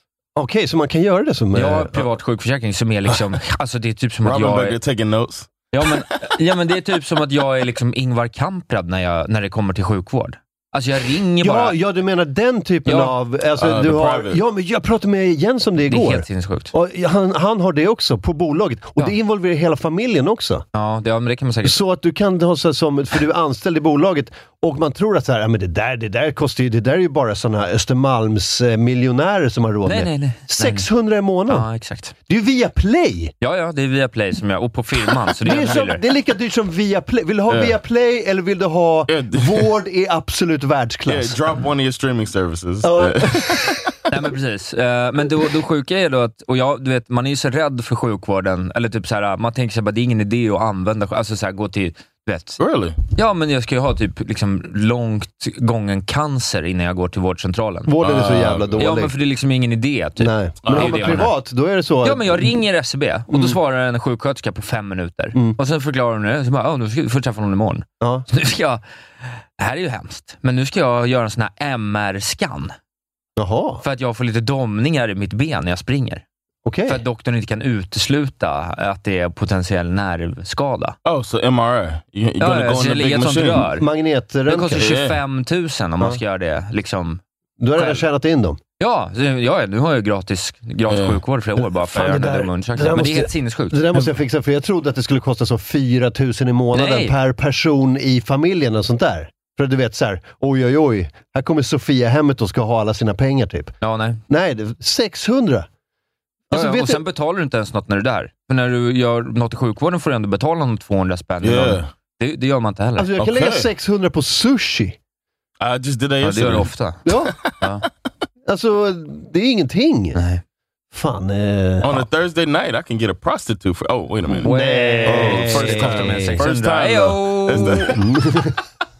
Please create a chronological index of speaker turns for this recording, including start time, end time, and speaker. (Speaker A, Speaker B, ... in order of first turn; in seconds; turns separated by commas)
Speaker A: 0.3-2.0, Speaker B: 1.5-4.8, Speaker C: 4.2-5.7, Speaker B: 5.7-11.8, Speaker A: 11.4-20.6, Speaker B: 12.8-13.1, Speaker C: 13.6-14.4, Speaker B: 15.8-16.7, Speaker B: 20.7-21.8, Speaker A: 21.6-31.7, Speaker B: 29.9-30.9, Speaker B: 31.5-32.1, Speaker A: 32.3-33.3, Speaker B: 33.4-36.0, Speaker A: 35.4-41.4, Speaker C: 37.5-37.7, Speaker C: 39.1-39.7, Speaker C: 41.0-44.0, Speaker A: 42.8-43.8, Speaker B: 44.1-52.6, Speaker C: 52.6-53.0, Speaker B: 53.1-57.9, Speaker A: 57.9-59.1, Speaker C: 58.0-58.8, Speaker B: 58.8-61.3, Speaker A: 60.2-62.5, Speaker C: 60.6-61.2, Speaker B: 62.0-72.7, Speaker A: 63.3-63.6, Speaker A: 68.0-68.3, Speaker A: 73.4-73.8, Speaker B: 73.8-76.2, Speaker A: 76.6-77.0, Speaker B: 76.9-81.0, Speaker C: 81.0-83.7, Speaker B: 82.4-83.9, Speaker A: 83.7-84.8, Speaker B: 84.5-87.2, Speaker C: 84.8-85.2, Speaker A: 87.6-88.6, Speaker B: 87.7-88.0, Speaker B: 88.8-93.9, Speaker C: 90.9-91.2, Speaker A: 91.8-103.7, Speaker B: 96.7-97.2, Speaker B: 103.8-104.2, Speaker A: 104.3-105.7, Speaker A: 106.5-107.0, Speaker B: 106.5-113.1, Speaker C: 111.4-111.9, Speaker A: 113.0-115.0, Speaker C: 113.2-113.7, Speaker C: 115.6-116.7, Speaker B: 116.2-117.0, Speaker A: 117.0-117.4, Speaker B: 117.6-117.9, Speaker A: 118.5-120.2, Speaker B: 120.1-120.4, Speaker A: 120.9-121.9, Speaker C: 121.8-124.5, Speaker A: 124.3-126.4, Speaker B: 124.4-128.0, Speaker C: 125.0-128.0, Speaker A: 127.6-128.6